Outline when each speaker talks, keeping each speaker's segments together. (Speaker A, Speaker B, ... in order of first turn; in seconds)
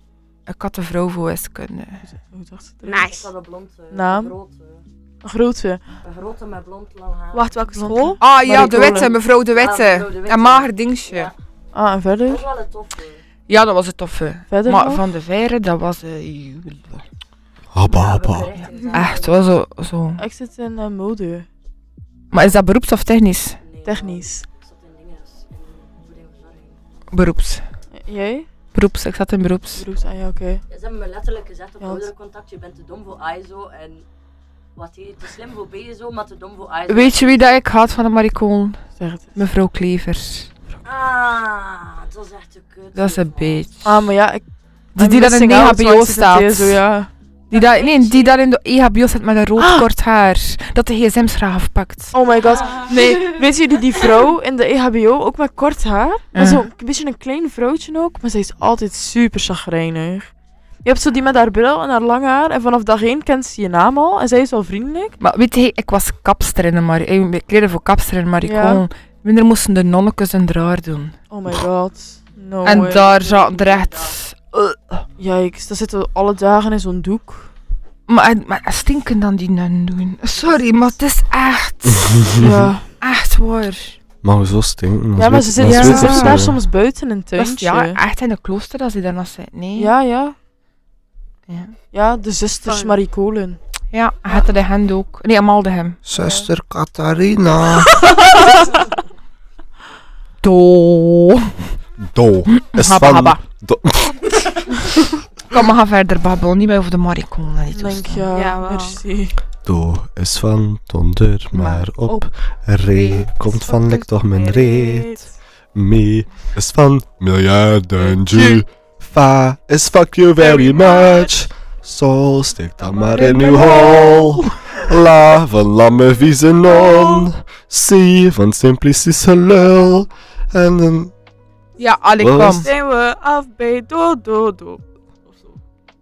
Speaker A: 0.5-2.0, 2.9-3.2, 8.2-11.3, 13.5-17.0, 18.9-20.2, 22.3-23.6, 27.1-27.6, 28.7-29.9, 36.9-38.8, 39.4-40.5, 43.0-43.9, 45.0-46.8, 47.5-52.1, 56.4-56.7, 65.2-71.1, 72.6-75.0, 78.1-84.0, 85.6-86.4, 87.4-89.9, 91.5-91.7, 93.9-96.0, 100.4-101.5, 102.5-103.4, 105.5-108.3, 111.5-112.2, 113.0-113.3, 123.0-124.5, 131.8-132.7
Speaker B: 2.0-3.1, 3.9-4.3, 5.2-5.8, 7.8-9.1, 11.7-12.5, 14.5-15.1, 20.2-21.5, 23.9-24.4, 27.9-28.5, 29.8-30.6, 31.8-32.1, 39.0-39.3, 43.9-44.4, 45.0-47.1, 49.6-49.9, 52.1-60.3, 60.8-65.2, 68.4-68.8, 71.3-73.1, 75.2-77.5, 82.4-82.9, 85.2-88.0, 89.8-90.3, 91.9-93.6, 96.1-96.5, 107.7-109.4
Speaker C: 2.9-4.8, 6.0-7.7, 8.8-11.3, 12.3-13.2, 17.9-19.6, 23.6-26.8, 30.7-34.0, 34.8-37.6, 40.8-43.9, 47.5-48.4, 52.5-53.4, 72.7-74.2, 80.4-80.9
Speaker D: 7.3-8.2, 92.6-93.0, 108.3-109.0, 113.5-115.3, 118.0-118.6, 120.4-121.4, 126.7-127.3, 132.6-135.6
Speaker E: 17.7-18.5, 81.9-82.7, 84.2-86.6, 96.1-98.0, 102.0-104.7, 109.6-115.2, 115.7-131.1, 132.2-132.7